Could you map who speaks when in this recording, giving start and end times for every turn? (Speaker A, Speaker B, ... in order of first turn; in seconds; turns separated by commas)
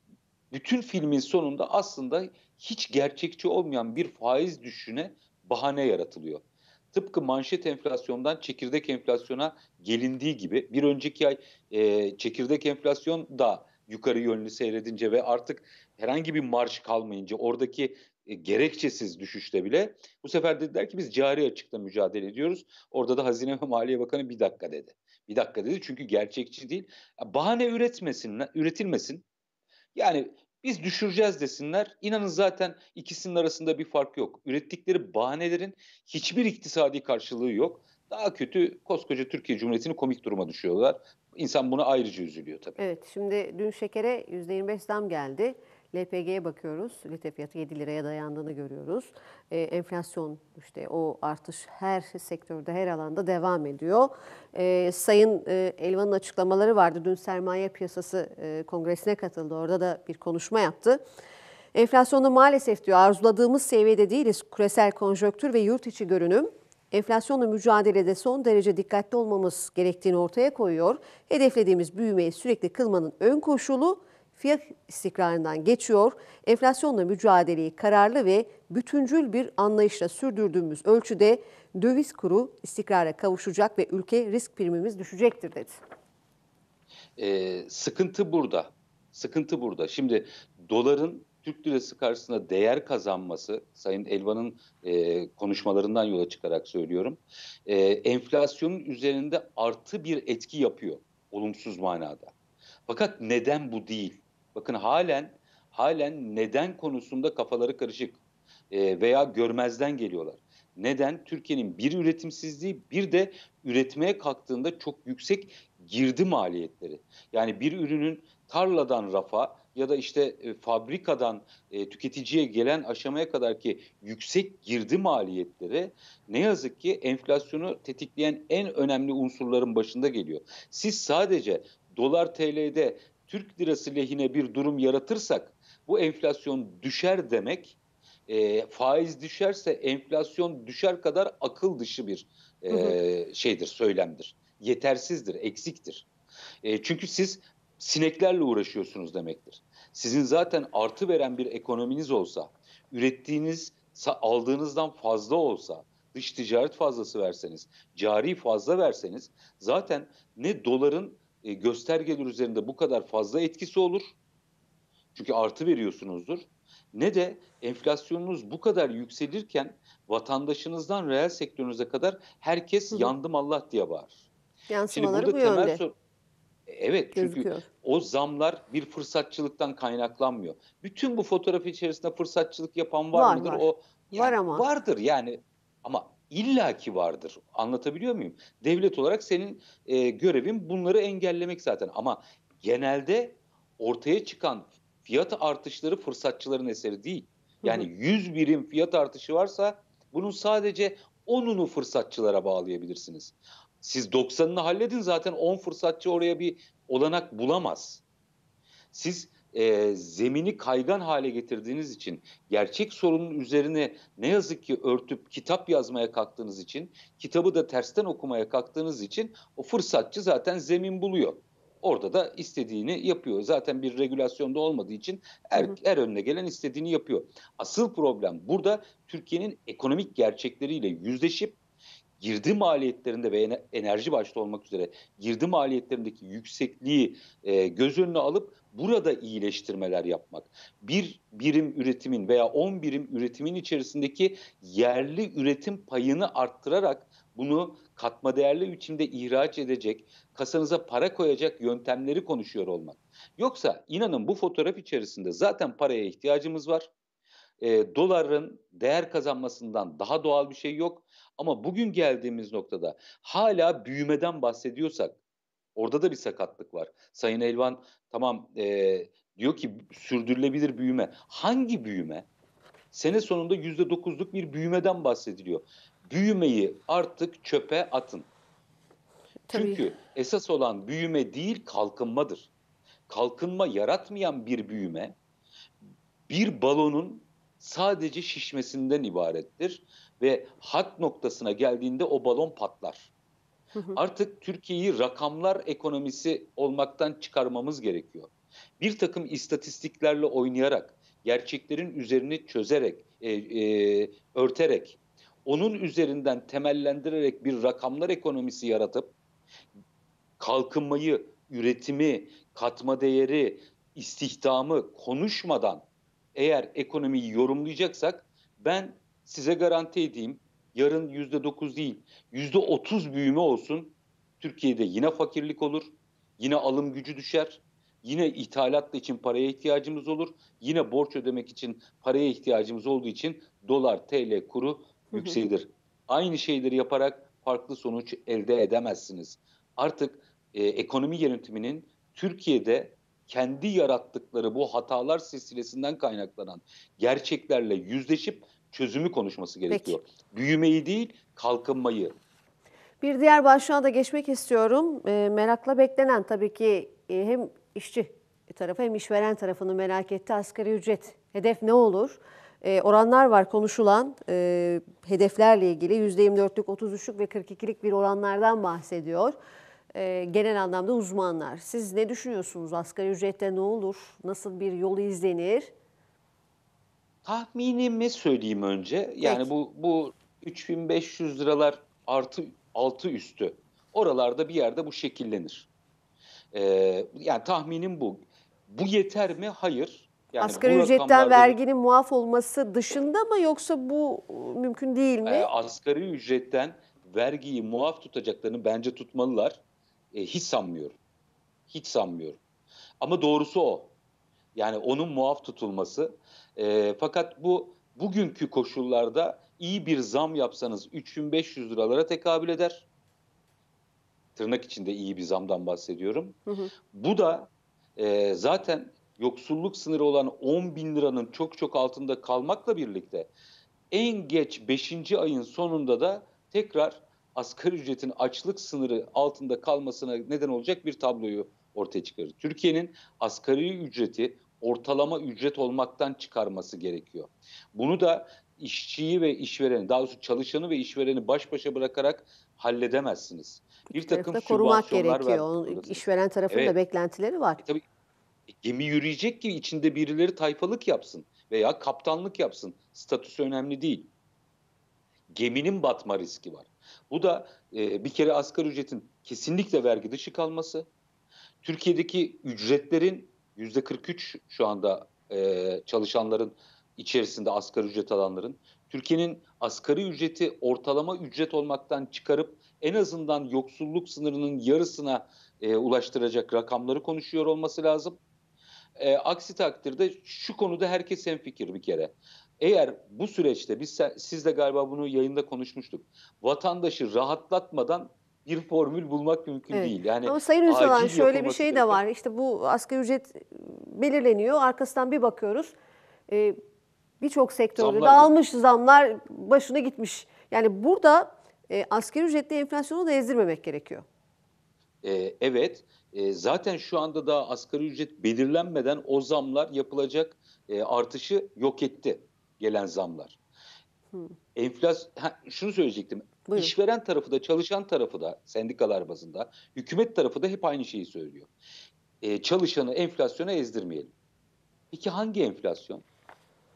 Speaker A: 0.5-29.2, Speaker A: 29.9-42.8, Speaker B: 42.8-61.0, Speaker B: 61.8-85.8, Speaker A: 87.2-102.3, Speaker A: 102.9-108.2, Speaker A: 108.7-146.1, Speaker B: 142.7-143.0, Speaker A: 146.6-164.2, Speaker A: 165.2-174.2, Speaker B: 174.7-175.8, Speaker A: 174.9-176.0, Speaker A: 176.7-208.0, Speaker B: 177.2-177.7, Speaker B: 183.1-184.7, Speaker B: 197.6-197.9, Speaker A: 208.9-231.6, Speaker A: 232.2-256.9, Speaker A: 257.6-265.2, Speaker A: 265.8-272.3, Speaker A: 272.9-278.3, Speaker B: 279.5-279.8, Speaker A: 279.5-282.5, Speaker A: 283.1-285.2, Speaker A: 286.3-293.1, Speaker B: 293.8-294.0, Speaker A: 293.9-309.1, Speaker A: 310.4-352.2, Speaker B: 335.1-335.4, Speaker B: 349.7-350.0, Speaker B: 353.0-369.4, Speaker B: 369.9-375.7, Speaker A: 377.2-385.7, Speaker B: 379.2-379.5, Speaker A: 386.5-391.6, Speaker B: 390.4-395.5, Speaker A: 395.3-399.6, Speaker A: 400.1-401.0, Speaker A: 401.7-402.4, Speaker A: 403.0-404.0, Speaker A: 404.6-412.9, Speaker A: 414.4-416.4, Speaker B: 416.5-416.7, Speaker A: 416.9-423.3, Speaker A: 423.9-446.8, Speaker B: 443.9-447.6, Speaker A: 448.5-454.1, Speaker A: 455.3-460.9, Speaker A: 461.6-478.2, Speaker A: 479.0-492.0, Speaker B: 489.7-495.8, Speaker B: 496.3-496.6, Speaker B: 497.2-504.1, Speaker A: 497.8-498.3, Speaker A: 505.0-513.4, Speaker A: 514.5-521.5, Speaker B: 516.5-516.7, Speaker A: 522.2-524.1, Speaker A: 524.9-526.0